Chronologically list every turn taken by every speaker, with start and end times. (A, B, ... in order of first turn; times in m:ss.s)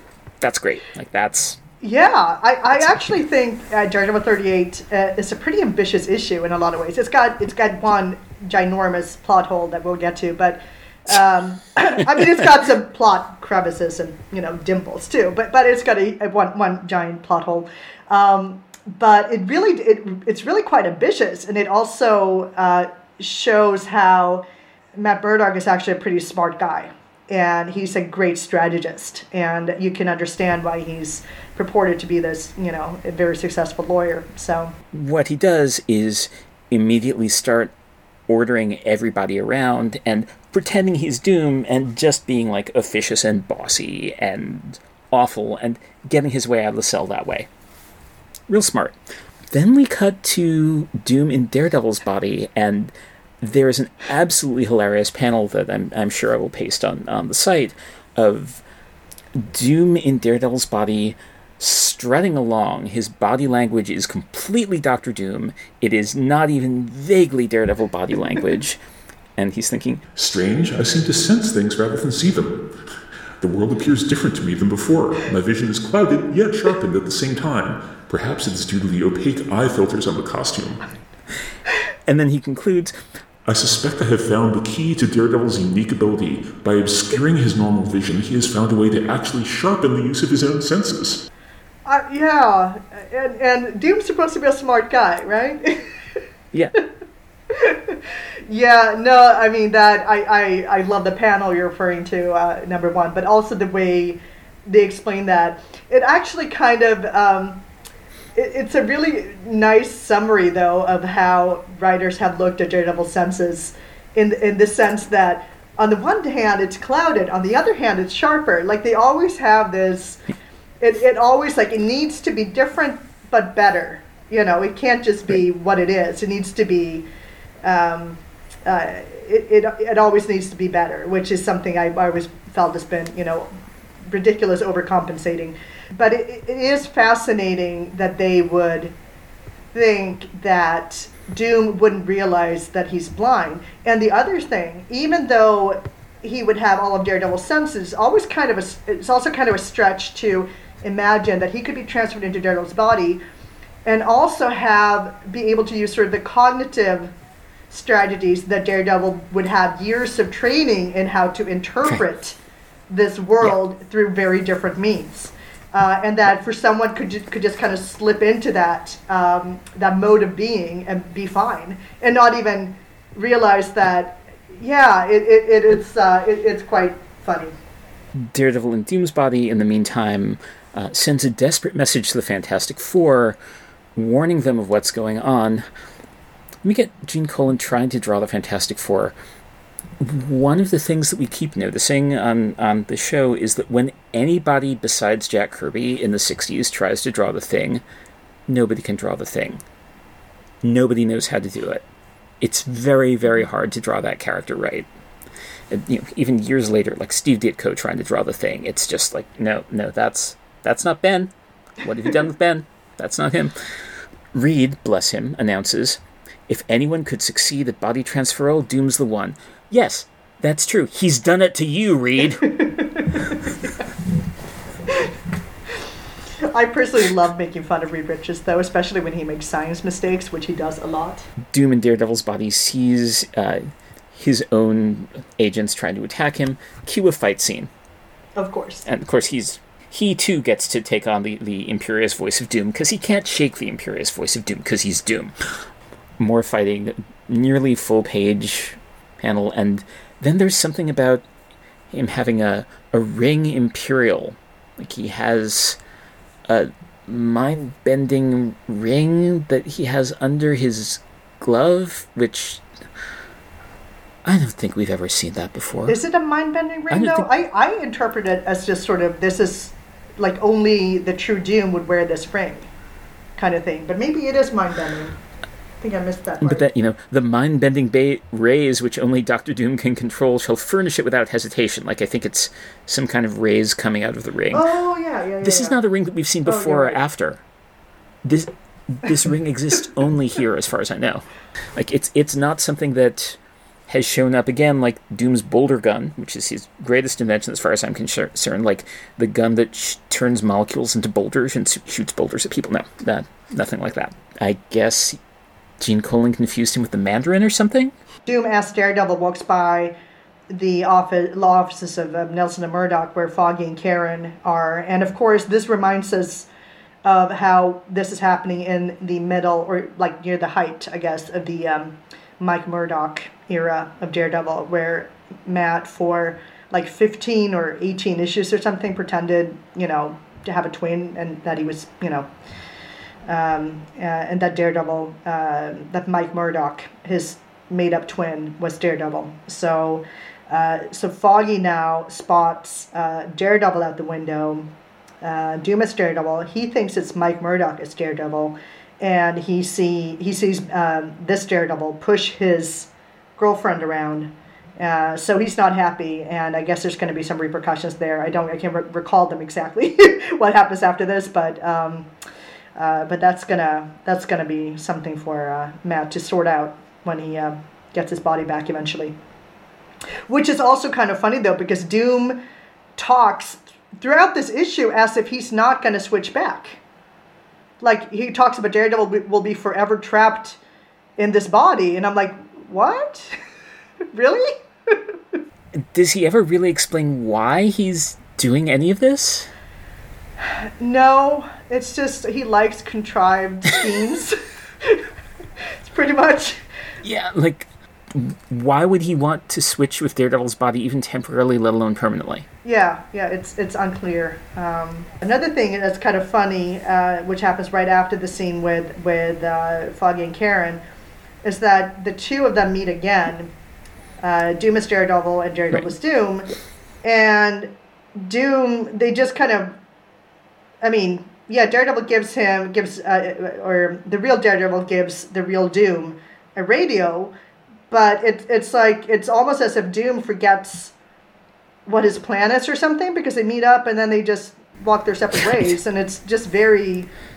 0:00.4-0:01.6 A
0:01.8-0:34.7 B
0:34.9-0:37.7 A
0:38.3-0:47.5 A
0:48.5-0:49.0 A
0:49.5-0:58.6 A
0:59.4-1:08.8 A
1:09.4-1:10.0 A
1:10.2-1:12.7 C
1:13.4-1:20.8 C
1:22.1-1:22.9 A
1:23.4-1:31.2 C
1:31.8-1:36.2 B
1:37.5-1:47.6 B
1:48.4-2:00.2 B
2:00.8-2:07.1 B
2:07.6-2:13.5 B
2:14.0-2:18.9 B
2:19.7-2:33.2 B
2:33.8-2:37.1 B
2:37.7-2:42.4 B
2:42.9-2:57.5 B
2:58.2-3:03.4 A
3:04.0-3:05.6 A
3:06.6-3:09.1 A
3:10.0-3:17.8 A
3:18.5-3:19.6 A
3:20.6-3:21.8 A
3:22.4-3:24.9 A
3:25.7-3:33.6 A
3:34.3-3:42.5 A
3:42.5-3:43.2 B
3:44.9-3:45.1 B
3:46.4-3:51.3 B
3:51.5-3:57.7 A
3:58.4-3:58.9 B
3:58.9-4:05.3 A
4:06.2-4:11.2 A
4:11.9-4:15.8 A
4:16.5-4:22.6 A
4:24.2-4:26.0 A
4:25.9-4:32.7 B
4:26.9-4:27.2 A
4:33.4-4:35.2 B
4:35.8-4:36.6 B
4:36.4-4:44.7 A
4:44.5-4:45.8 B
4:45.4-4:47.4 A
4:46.4-4:47.0 B
4:48.2-4:53.4 A
4:53.9-5:05.2 A
5:05.8-5:07.9 A
5:08.2-5:10.0 B
5:10.5-5:16.5 B
5:17.0-5:32.3 B
5:33.2-5:44.7 B
5:45.2-6:02.1 B
6:02.8-6:09.2 B
6:10.3-6:12.4 B
6:13.0-6:16.8 B
6:17.8-6:20.6 B
6:21.2-6:23.4 B
6:24.1-6:25.4 B
6:25.8-6:29.5 A
6:30.4-6:35.1 B
6:35.6-6:36.6 B
6:37.0-6:42.4 A
6:42.6-6:50.8 B
6:51.4-6:53.5 B
6:54.2-6:56.5 B
6:57.0-6:59.8 B
7:00.8-7:07.3 B
7:07.9-7:10.9 B
7:11.9-7:17.1 B